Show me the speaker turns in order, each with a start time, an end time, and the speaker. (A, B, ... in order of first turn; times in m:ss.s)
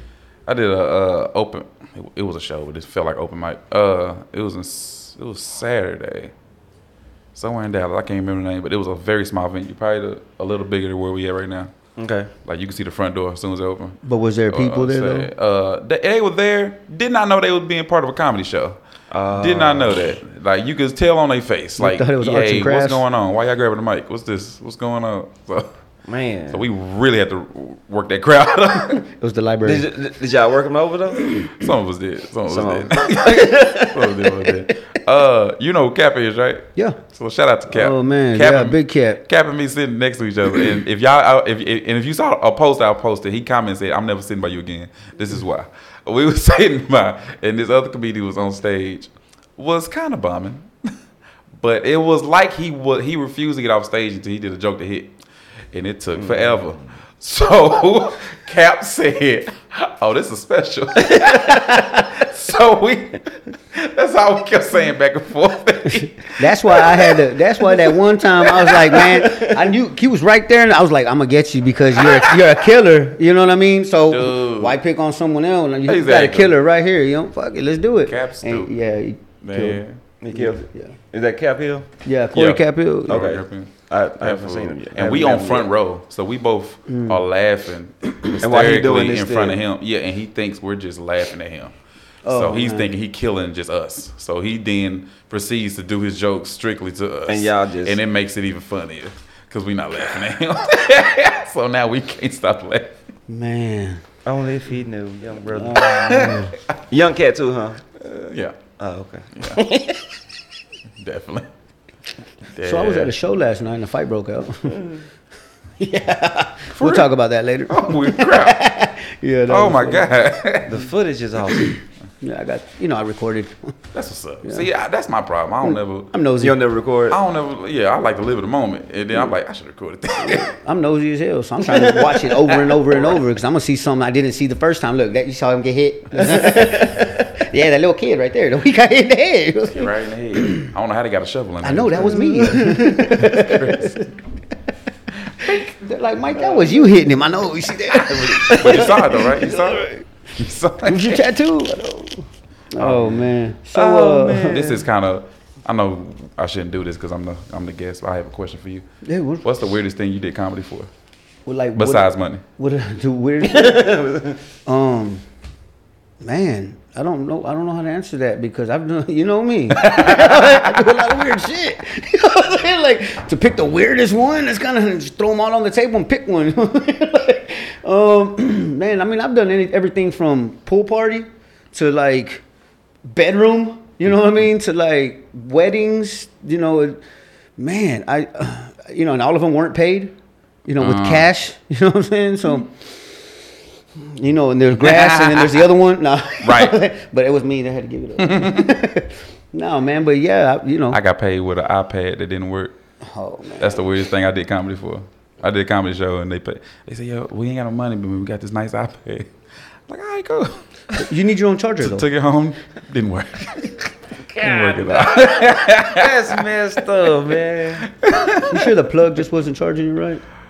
0:00.4-0:06.3 A
0:07.3-0:11.7 A
0:12.0-0:12.3 B
0:12.4-0:18.8 A
0:14.0-0:15.3 C
0:19.1-0:20.0 B
0:19.3-0:25.7 A
0:21.8-0:23.0 C
0:26.1-0:26.6 B
0:26.5-0:29.0 A
0:29.1-0:29.8 C
0:29.6-0:31.5 B
0:31.5-0:50.9 A
0:32.5-0:34.4 B
0:37.7-0:39.2 C
0:51.6-0:55.2 A
0:55.7-1:07.2 A
1:01.7-1:02.0 C
1:06.3-1:19.8 C
1:09.0-1:09.6 B
1:12.0-1:12.5 A
1:14.1-1:14.8 A
1:15.8-1:16.6 A
1:18.0-1:18.7 A
1:19.4-1:20.0 A
1:20.2-1:21.9 B
1:20.3-1:20.9 C
1:22.0-1:23.2 C
1:22.3-1:31.7 A
1:23.1-1:25.7 B
1:26.9-1:27.2 C
1:28.4-1:29.6 B
1:32.2-1:32.9 C
1:32.2-1:43.0 A
1:37.3-1:38.0 B
1:43.3-1:44.0 C
1:44.2-1:47.8 B
1:45.7-1:46.5 C
1:48.0-1:48.6 A
1:48.8-1:50.0 B
1:49.4-1:49.6 A
1:51.0-1:51.5 A
1:52.5-1:53.1 A
1:52.6-1:54.9 C
1:55.8-2:00.1 C
1:56.8-1:57.1 A
1:57.7-1:58.6 A
1:59.5-2:00.8 A
2:00.6-2:01.8 B
2:02.2-2:03.7 C
2:03.9-2:06.1 A
2:05.6-2:06.5 C
2:06.4-2:07.2 B
2:07.1-2:10.5 A
2:10.2-2:20.7 C
2:16.3-2:17.1 B
2:19.7-2:24.0 A
2:21.6-2:24.1 C
2:25.4-2:29.2 C
2:26.4-2:26.9 B
2:27.8-2:31.3 A
2:28.5-2:29.8 B
2:30.8-2:34.6 C
2:32.8-2:33.3 A
2:33.7-2:34.8 B
2:34.5-2:38.8 A
2:39.0-2:39.4 C
2:39.4-2:40.9 A
2:41.4-2:44.1 C
2:41.7-2:42.4 A
2:43.5-2:44.4 B
2:44.6-2:45.2 C
2:46.2-3:02.4 C
2:49.8-2:50.6 A
3:03.0-3:07.0 C
3:07.6-3:10.1 C
3:10.6-3:12.8 C
3:10.8-3:11.3 A
3:14.0-3:21.0 C
3:14.8-3:15.7 A
3:16.4-3:16.8 A
3:18.2-3:18.8 A
3:20.9-3:22.7 A
3:23.0-3:23.8 C
3:23.6-3:29.3 A
3:29.9-3:31.0 A
3:30.9-3:32.0 C
3:31.8-3:36.4 A
3:34.4-3:37.9 B
3:37.8-3:38.7 A
3:38.4-3:40.2 C